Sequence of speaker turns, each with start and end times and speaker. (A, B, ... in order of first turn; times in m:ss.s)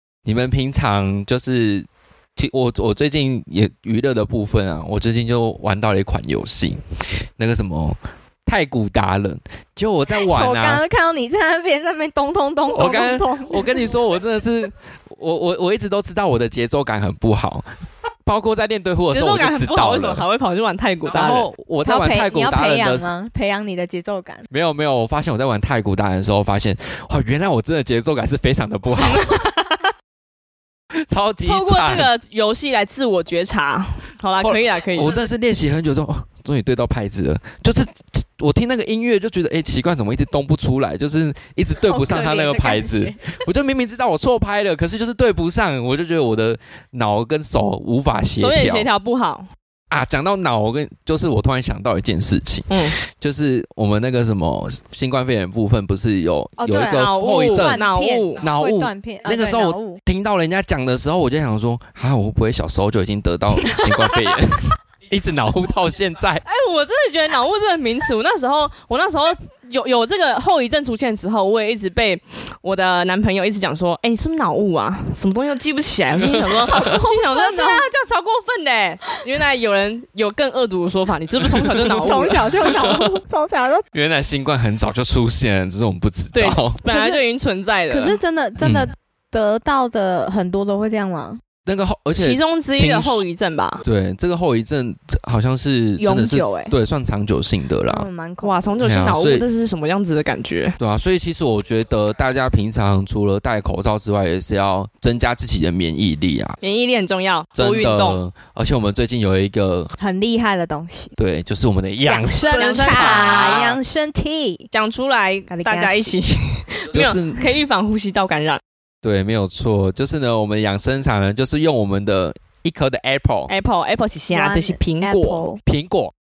0:00.2-0:06.8 A
0:07.4-0:10.8 A
0:10.1-0:13.9 B
0:12.7-0:17.6 A
0:18.2-0:20.2 A
0:19.1-0:21.5 C
0:21.1-0:23.1 A
0:21.8-0:24.5 B
0:24.5-0:29.4 A
0:29.0-0:29.9 C
0:31.1-0:32.1 A
0:31.4-0:35.2 C
0:34.4-0:48.9 A
0:41.8-0:43.2 B
0:48.4-0:49.5 C
0:49.9-0:57.8 A
0:52.7-0:53.0 C
0:56.6-1:00.0 B
0:56.8-0:58.4 C
0:58.4-1:06.4 A
1:03.6-1:04.0 B
1:06.4-1:22.4 C
1:16.1-1:16.8 A
1:16.7-1:17.9 B
1:21.8-1:23.8 B
1:22.7-1:23.1 A
1:23.9-1:26.8 A
1:26.3-1:28.2 C
1:26.9-1:27.2 B
1:27.9-1:31.4 B
1:28.6-1:28.9 A
1:31.6-1:33.2 A
1:32.2-1:33.8 C
1:33.8-1:38.1 A
1:36.0-1:36.7 B
1:37.9-1:38.7 B
1:38.4-1:40.8 C
1:38.8-1:39.4 A
1:40.8-1:46.6 A
1:46.6-1:48.2 C
1:47.6-1:49.9 A
1:50.0-1:51.2 B
1:51.2-1:53.7 A
1:52.0-1:54.7 B
1:52.3-1:53.8 C
1:54.7-1:58.6 C
1:55.5-1:56.2 B
1:56.9-1:57.5 A
1:59.0-2:03.5 A
2:03.5-2:05.5 C
2:04.3-2:05.6 B
2:05.6-2:06.1 A